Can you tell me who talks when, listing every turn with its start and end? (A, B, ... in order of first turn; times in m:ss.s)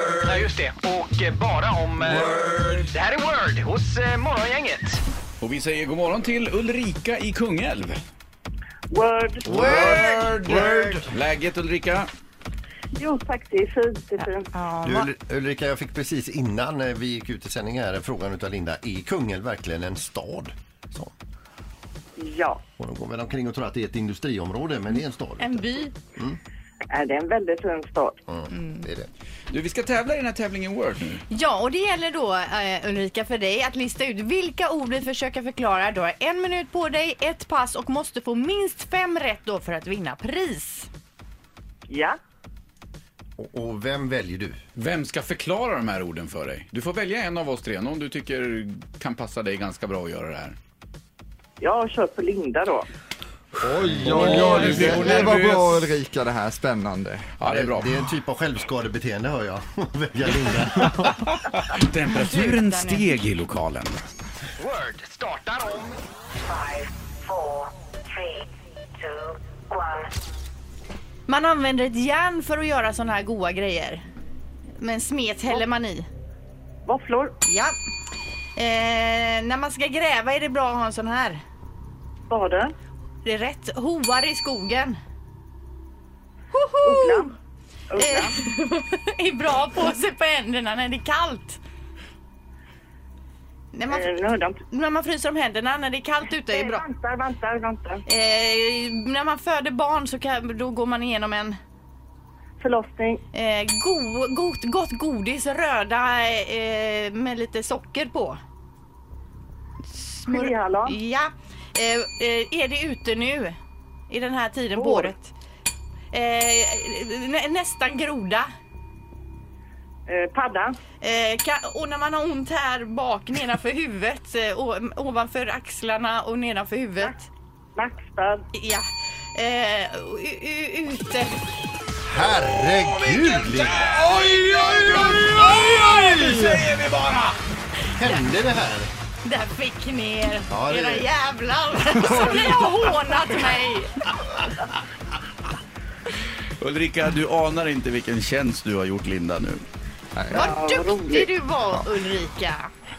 0:00.2-0:05.0 A
0:05.4-0:08.0 B
0:08.9-0:10.0 C
0:09.5-0:12.1 B
0:09.6-0:10.8 D
0:12.9-0:14.5 C
0:14.5-0:15.1 E
0:14.8-0:21.1 D
0:22.2-0:22.6 C
0:22.8-0:26.4 D
0:25.4-0:26.0 E
0:26.9-0:28.2 C
0:28.3-0:29.1 D
0:28.5-0:28.9 E
0:29.5-0:31.2 B
0:31.3-0:40.9 E
0:41.9-0:42.2 C
0:43.4-0:44.6 D
0:44.8-0:50.6 B
0:51.6-0:52.9 C
0:53.6-0:57.3 F
0:53.8-0:55.2 D
0:54.0-0:55.9 B
0:57.4-0:58.1 B
0:57.4-1:01.2 D
1:01.0-1:04.0 B
1:02.1-1:03.2 E
1:04.6-1:06.0 A
1:11.3-1:14.0 E
1:14.8-1:16.1 E
1:16.8-1:17.4 C
1:17.4-1:17.7 E
1:18.6-1:21.4 E
1:22.3-1:22.7 C
1:23.2-1:25.0 E
1:26.5-1:27.3 E
1:26.8-1:27.3 C
1:27.9-1:28.4 C
1:28.0-1:31.6 E
1:33.7-1:34.1 E
1:33.9-1:34.6 C
1:34.6-1:36.8 E
1:36.5-1:38.0 C
1:38.1-1:41.6 E
1:42.6-1:43.2 C
1:43.3-1:48.4 E
1:49.9-1:53.6 E
1:50.3-1:50.9 C
1:54.1-1:55.3 E
1:54.8-1:55.1 C
1:56.1-1:58.5 E
2:00.1-2:00.8 C
2:01.0-2:07.2 E
2:07.8-2:08.4 C
2:08.5-2:11.4 E
2:12.0-2:13.9 D
2:12.5-2:17.4 B
2:18.0-2:18.9 D
2:19.2-2:23.9 E
2:20.5-2:21.0 D
2:26.6-2:29.6 B
2:30.1-2:30.5 F
2:30.3-2:32.7 E
2:30.3-2:31.3 C